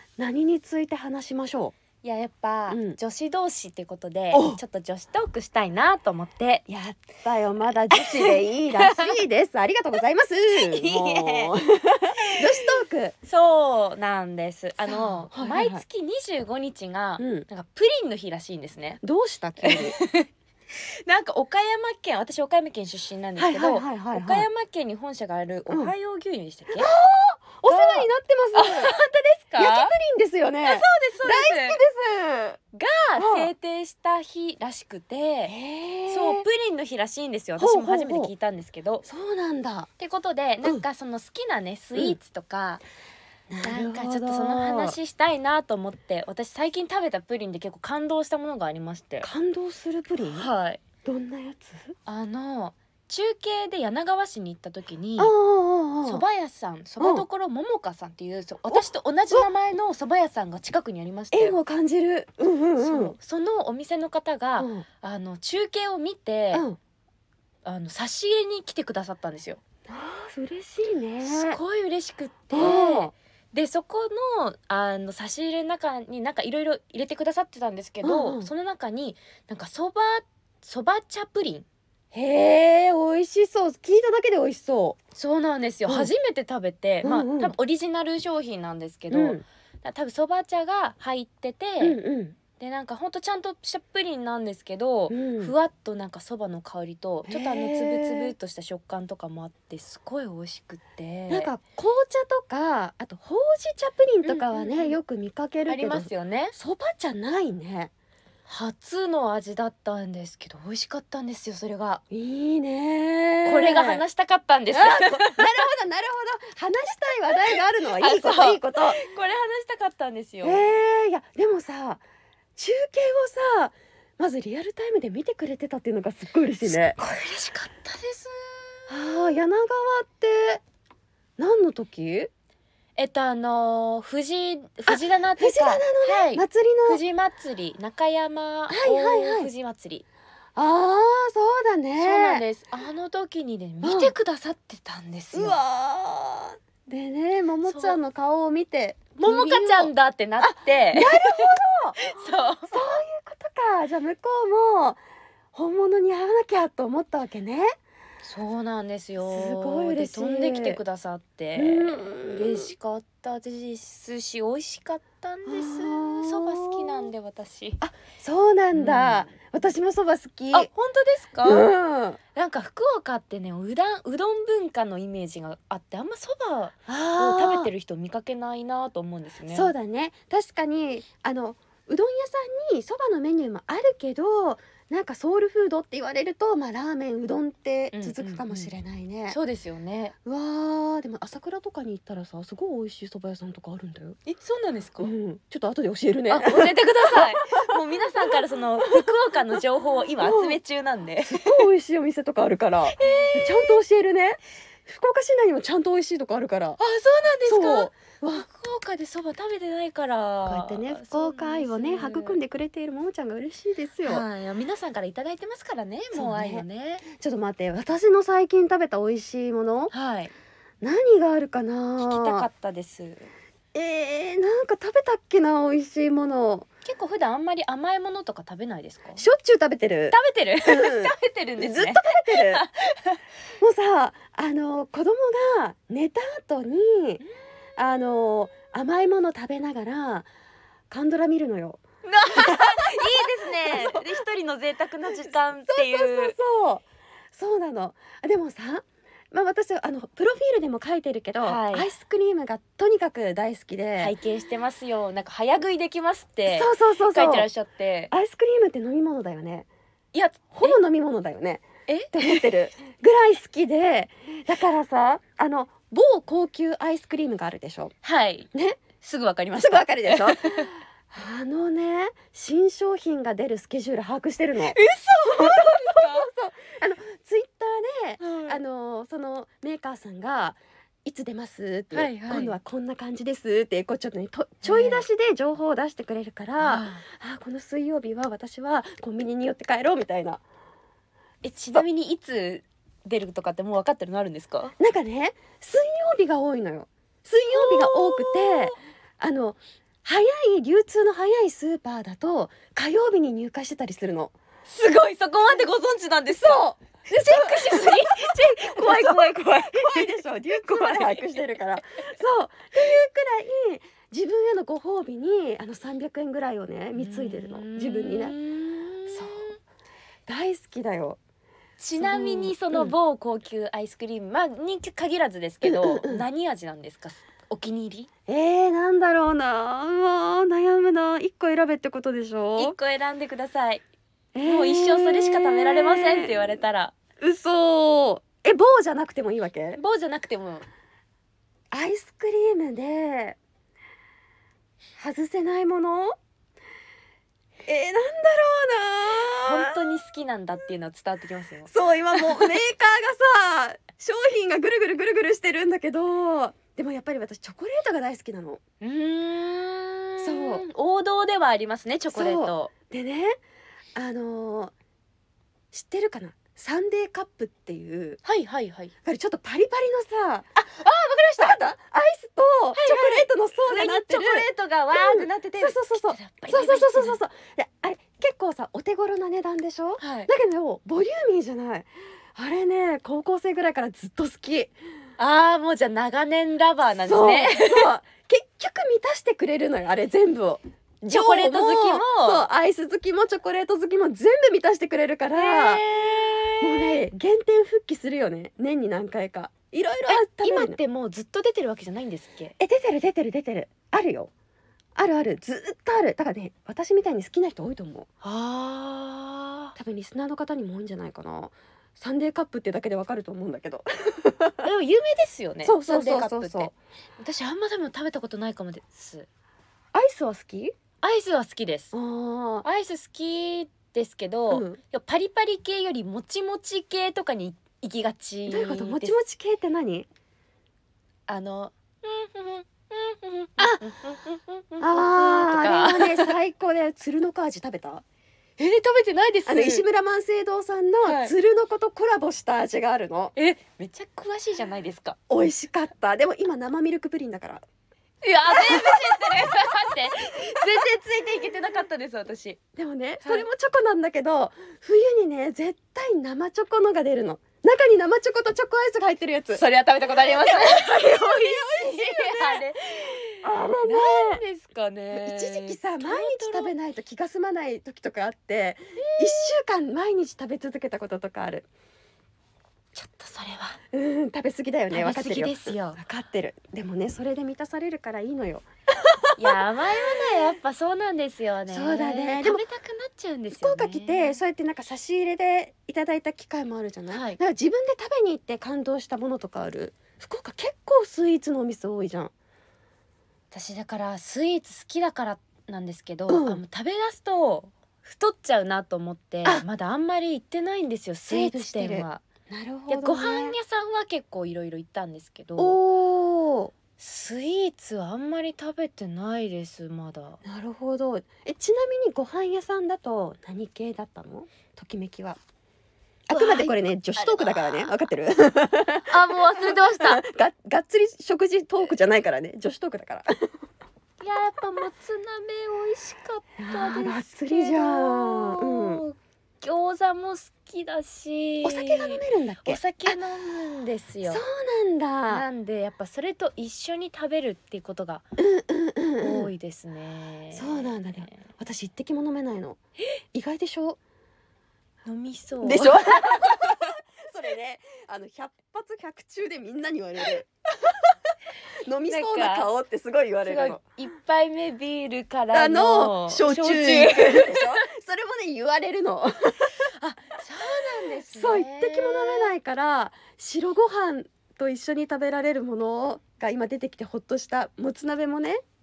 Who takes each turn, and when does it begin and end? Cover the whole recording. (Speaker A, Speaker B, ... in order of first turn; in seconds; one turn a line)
Speaker A: 0.2-1.7
Speaker B: 2.0-6.6
Speaker A: 2.7-3.0
Speaker A: 4.3-4.6
Speaker A: 6.7-13.1
Speaker B: 7.9-9.2
Speaker B: 10.5-11.5
Speaker B: 13.2-19.0
Speaker A: 14.8-15.8
Speaker A: 17.2-17.4
Speaker A: 19.0-20.0
Speaker B: 19.6-26.9
Speaker A: 23.4-24.5
Speaker A: 26.7-28.9
Speaker B: 27.7-29.9
Speaker A: 29.6-32.6
Speaker B: 30.6-31.8
Speaker B: 32.7-35.5
Speaker A: 33.2-33.5
Speaker A: 35.5-36.4
Speaker B: 36.1-39.0
Speaker A: 37.6-38.3
Speaker A: 39.0-39.9
Speaker B: 40.0-42.8
Speaker A: 43.5-45.0
Speaker B: 43.6-49.3
Speaker A: 49.2-50.5
Speaker B: 50.3-50.8
Speaker A: 51.0-51.9
Speaker B: 52.0-55.3
Speaker A: 55.2-56.2
Speaker B: 56.0-61.5
Speaker A: 57.0-57.2
Speaker A: 58.7-59.5
Speaker A: 61.3-63.1
Speaker B: 62.8-66.7
Speaker A: 64.6-64.8
Speaker A: 66.5-66.8
Speaker B: 67.6-69.6
Speaker A: 69.9-71.6
Speaker B: 71.2-81.7
Speaker A: 72.5-73.1
Speaker A: 78.0-78.5
Speaker A: 82.1-85.0
Speaker B: 85.1-92.0
Speaker A: 87.0-87.5
Speaker A: 89.1-89.4
Speaker A: 91.8-92.4
Speaker B: 92.6-101.5
Speaker A: 95.1-95.5
Speaker A: 97.3-98.3
Speaker A: 101.3-107.9
Speaker B: 104.2-105.0
Speaker B: 105.7-106.5
Speaker B: 108.5-112.0
Speaker A: 112.1-114.0
Speaker B: 113.4-115.5
Speaker A: 114.7-119.0
Speaker B: 117.5-120.7
Speaker A: 120.4-122.0
Speaker A: 122.6-127.0
Speaker B: 126.6-129.3
Speaker A: 128.9-130.6
Speaker A: 131.4-132.3
Speaker B: 133.0-140.0
Speaker A: 134.9-137.0
Speaker A: 138.7-139.5
Speaker A: 140.6-142.4
Speaker B: 142.0-145.6
Speaker A: 143.8-144.1
Speaker A: 145.3-152.1
Speaker B: 147.6-148.0
Speaker B: 149.2-151.4
Speaker B: 152.0-152.7
Speaker A: 152.7-155.0
Speaker A: 155.5-157.7
Speaker B: 158.2-167.8
Speaker A: 159.2-160.8
Speaker A: 161.6-162.7
Speaker A: 165.4-167.1
Speaker A: 167.8-170.7
Speaker B: 168.7-169.3
Speaker B: 170.5-171.7
Speaker A: 171.4-172.2
Speaker B: 172.3-179.7
Speaker A: 176.9-177.7
Speaker A: 179.5-189.4
Speaker B: 187.9-188.7
Speaker B: 189.3-190.1
Speaker A: 190.2-194.2
Speaker B: 194.2-195.1
Speaker A: 195.0-197.6
Speaker B: 196.3-201.7
Speaker A: 200.2-200.6
Speaker A: 201.2-206.8
Speaker B: 202.9-203.8
Speaker B: 206.8-212.4
Speaker A: 207.4-208.4
Speaker A: 210.4-214.2
Speaker B: 214.0-217.0
Speaker A: 216.1-219.9
Speaker B: 219.9-220.3
Speaker A: 220.8-222.5
Speaker B: 222.0-223.3
Speaker A: 223.7-226.7
Speaker B: 226.8-229.2
Speaker A: 229.2-232.6
Speaker B: 230.1-233.2
Speaker A: 233.6-237.2
Speaker A: 237.8-240.3
Speaker A: 240.9-241.8
Speaker B: 242.0-246.3
Speaker A: 242.3-244.0
Speaker A: 245.0-254.1
Speaker B: 251.4-251.9
Speaker B: 254.0-258.1
Speaker A: 256.5-257.5
Speaker A: 258.1-259.7
Speaker B: 260.1-260.8
Speaker A: 260.5-267.9
Speaker B: 261.9-262.5
Speaker B: 268.0-270.8
Speaker A: 268.5-268.8
Speaker A: 269.6-290.4
Speaker B: 274.6-276.3
Speaker B: 278.2-278.6
Speaker B: 281.9-282.6
Speaker B: 284.6-285.1
Speaker B: 286.6-287.0
Speaker B: 291.4-294.7
Speaker A: 294.8-304.3
Speaker B: 297.5-298.8
Speaker B: 304.7-311.3
Speaker A: 306.4-318.3
Speaker B: 316.9-319.6
Speaker A: 319.1-319.5
Speaker A: 320.3-321.2
Speaker B: 321.8-328.1
Speaker A: 322.0-322.9
Speaker A: 325.6-326.2
Speaker A: 328.3-332.7
Speaker B: 332.6-333.8
Speaker A: 334.3-336.4
Speaker B: 334.4-337.0
Speaker A: 337.2-339.8
Speaker B: 339.8-340.7
Speaker A: 341.7-343.4
Speaker A: 345.0-346.1
Speaker A: 347.6-349.7
Speaker B: 349.3-352.6
Speaker A: 351.7-358.6
Speaker B: 358.8-362.7
Speaker A: 360.2-360.6
Speaker A: 362.1-363.4
Speaker A: 363.9-364.7
Speaker A: 365.7-368.2
Speaker B: 368.2-368.9
Speaker A: 369.0-370.5
Speaker B: 370.6-371.6
Speaker A: 371.4-384.7
Speaker B: 372.8-377.2
Speaker B: 380.0-380.3
Speaker B: 385.2-387.9
Speaker A: 387.1-395.9
Speaker B: 391.1-392.4
Speaker B: 395.3-397.0
Speaker A: 396.6-400.8
Speaker B: 400.1-402.5
Speaker A: 402.6-404.3
Speaker A: 404.9-408.1
Speaker B: 408.2-409.7
Speaker A: 409.8-414.6
Speaker B: 414.6-419.3
Speaker A: 415.6-416.7
Speaker A: 419.9-420.7
Speaker B: 421.0-421.9
Speaker A: 421.9-422.6
Speaker B: 422.6-429.1
Speaker A: 424.5-424.8
Speaker A: 428.5-430.1
Speaker B: 431.3-436.3
Speaker A: 434.8-438.0
Speaker B: 438.6-439.8
Speaker A: 439.4-443.3
Speaker B: 441.0-441.3
Speaker B: 443.3-445.2
Speaker A: 445.3-447.6
Speaker B: 448.2-452.6
Speaker A: 448.5-449.6
Speaker A: 452.8-459.6
Speaker B: 459.5-466.7
Speaker A: 460.2-462.6
Speaker A: 463.4-464.4
Speaker A: 465.1-471.7
Speaker B: 469.0-469.6
Speaker B: 472.9-473.8
Speaker A: 473.9-479.6
Speaker B: 474.9-476.0
Speaker B: 479.4-484.4
Speaker A: 481.7-482.6
Speaker A: 483.5-492.3
Speaker B: 487.1-487.4
Speaker B: 493.5-502.2
Speaker A: 496.3-496.6
Speaker A: 501.3-503.6
Speaker B: 502.9-505.8
Speaker A: 505.6-506.7
Speaker B: 507.0-510.4
Speaker A: 510.4-515.4
Speaker A: 516.3-523.5
Speaker B: 516.3-518.0
Speaker B: 519.1-520.2
Speaker B: 524.2-534.4
Speaker A: 526.6-529.0
Speaker A: 531.6-533.2
Speaker A: 534.2-535.4
Speaker B: 535.3-538.2
Speaker A: 538.4-539.5
Speaker B: 539.2-541.5
Speaker A: 540.5-542.8
Speaker A: 543.3-544.0
Speaker B: 545.0-546.1
Speaker A: 545.6-551.1
Speaker A: 551.9-553.8
Speaker B: 552.1-552.7
Speaker B: 553.4-557.7
Speaker A: 555.5-559.9
Speaker B: 560.0-562.5
Speaker A: 560.7-568.6